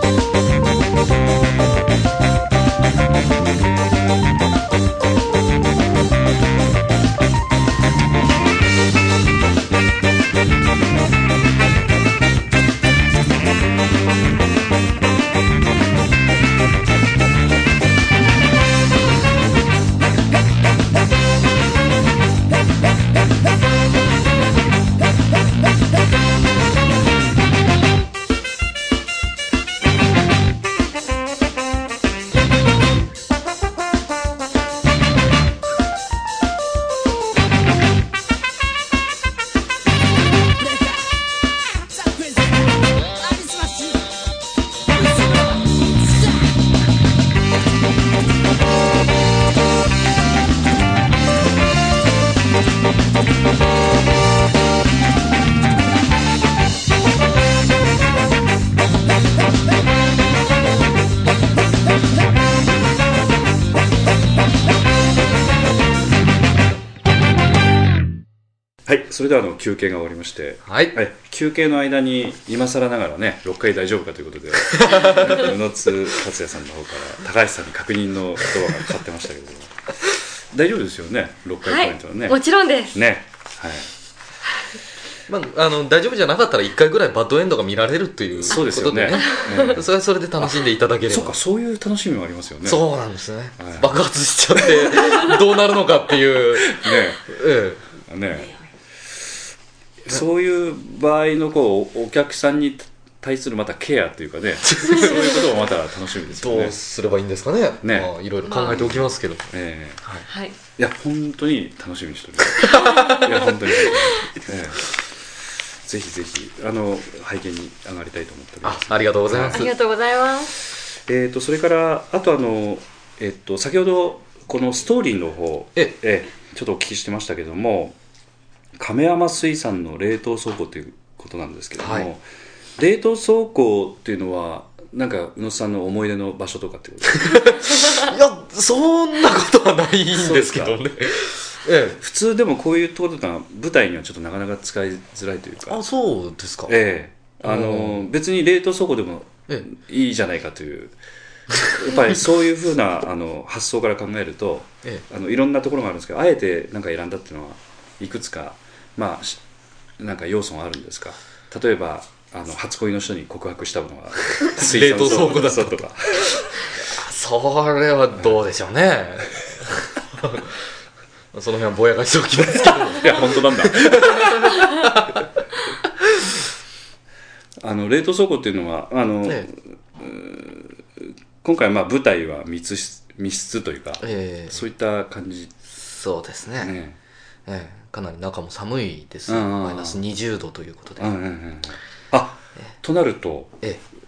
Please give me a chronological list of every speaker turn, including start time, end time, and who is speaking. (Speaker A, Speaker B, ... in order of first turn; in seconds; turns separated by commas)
Speaker A: 68.8-82.4, Speaker B: 70.7-71.0, Speaker B: 74.7-75.5, Speaker C: 81.6-83.0, Speaker A: 82.9-83.9, Speaker B: 85.3-91.4, Speaker A: 88.4-89.9, Speaker A: 90.4-92.8, Speaker B: 92.6-97.8, Speaker A: 93.6-94.0, Speaker A: 96.6-97.4, Speaker A: 98.0-98.5, Speaker A: 100.0-106.8, Speaker B: 104.7-105.5, Speaker B: 106.3-109.5, Speaker A: 107.8-110.0, Speaker C: 108.5-108.7, Speaker C: 110.3-110.5, Speaker A: 110.8-115.0, Speaker B: 112.6-114.1, Speaker C: 112.7-113.2, Speaker A: 115.8-119.7, Speaker B: 118.6-119.7, Speaker C: 119.5-120.5, Speaker A: 121.1-128.0, Speaker A: 128.8-132.2, Speaker B: 131.8-132.1, Speaker A: 132.8-138.1, Speaker B: 137.2-142.0, Speaker A: 140.1-140.8, Speaker A: 142.0-145.8, Speaker B: 145.7-146.7, Speaker A: 146.7-150.9, Speaker B: 147.4-148.1, Speaker A: 151.5-159.4, Speaker A: 160.0-166.7, Speaker B: 164.6-165.9, Speaker B: 166.7-170.6, Speaker B: 171.3-175.2, Speaker A: 172.9-174.5, Speaker B: 176.0-176.3, Speaker A: 177.6-185.5, Speaker B: 184.0-184.6, Speaker B: 185.8-186.7, Speaker A: 186.6-186.9, Speaker B: 187.4-191.1, Speaker A: 189.3-190.0, Speaker A: 191.0-193.6